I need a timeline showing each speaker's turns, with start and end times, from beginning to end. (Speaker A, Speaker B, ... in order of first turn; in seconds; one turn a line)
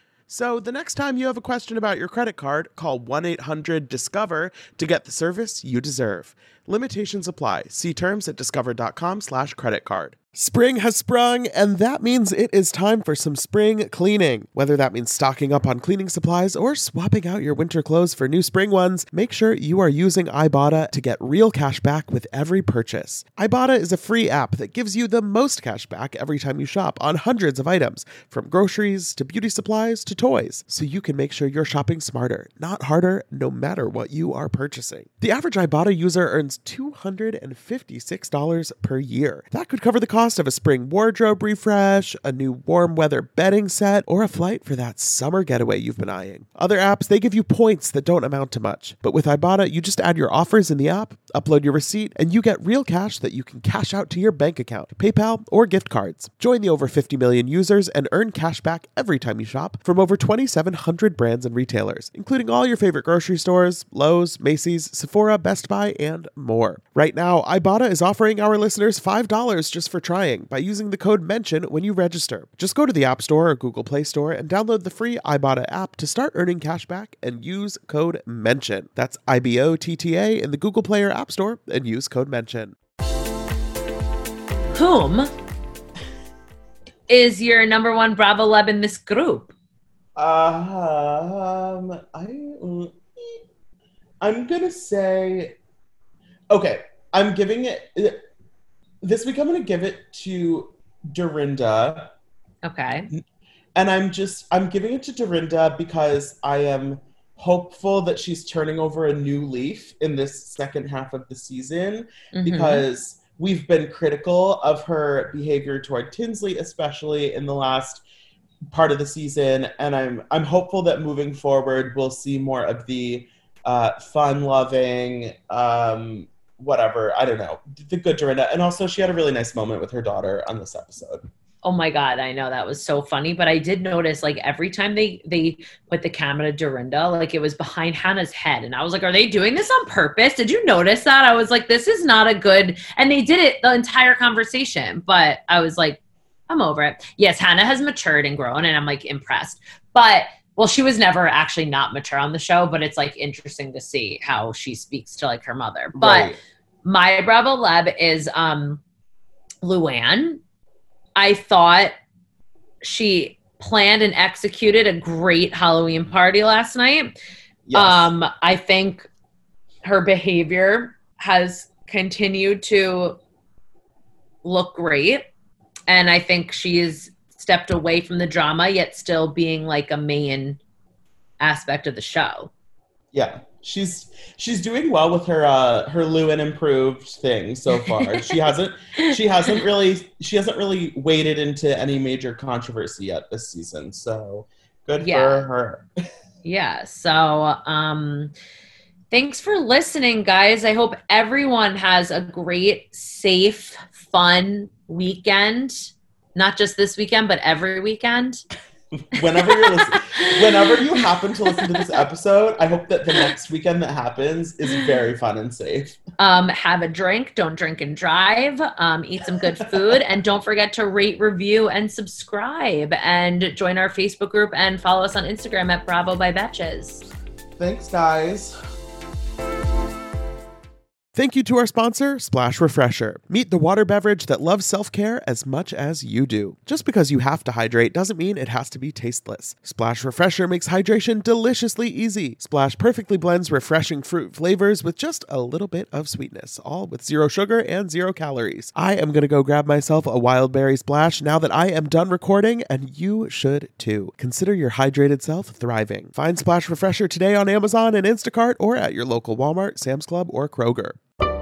Speaker A: 0.3-10.2
Speaker B: 10.3-82.7
Speaker C: 84.7-85.3
Speaker C: 87.1-89.5
Speaker A: 90.2-93.4
Speaker A: 94.2-95.5
Speaker A: 96.5-98.2
Speaker A: 99.0-102.1
Speaker C: 102.6-103.1
Speaker A: 103.8-118.0
Speaker C: 112.3-112.8
Speaker A: 118.7-131.2
Speaker C: 131.6-158.8
Speaker A: 155.9-156.4
Speaker C: 159.6-160.4
Speaker C: 161.2-161.9
Speaker C: 162.8-167.1
Speaker A: 167.7-168.1
Speaker C: 167.7-169.1
Speaker C: 169.8-173.2
Speaker C: 174.4-175.2
Speaker C: 175.9-180.6
Speaker C: 181.4-182.5
Speaker A: 183.1-195.9
Speaker C: 187.8-188.4
Speaker C: 195.0-195.4
Speaker C: 196.4-198.3
Speaker C: 199.1-208.4
Speaker A: 209.1-216.0
Speaker C: 209.3-210.8
Speaker C: 211.5-211.8
Speaker C: 216.2-227.0
Speaker A: 227.6-228.6
Speaker B: 231.2-261.0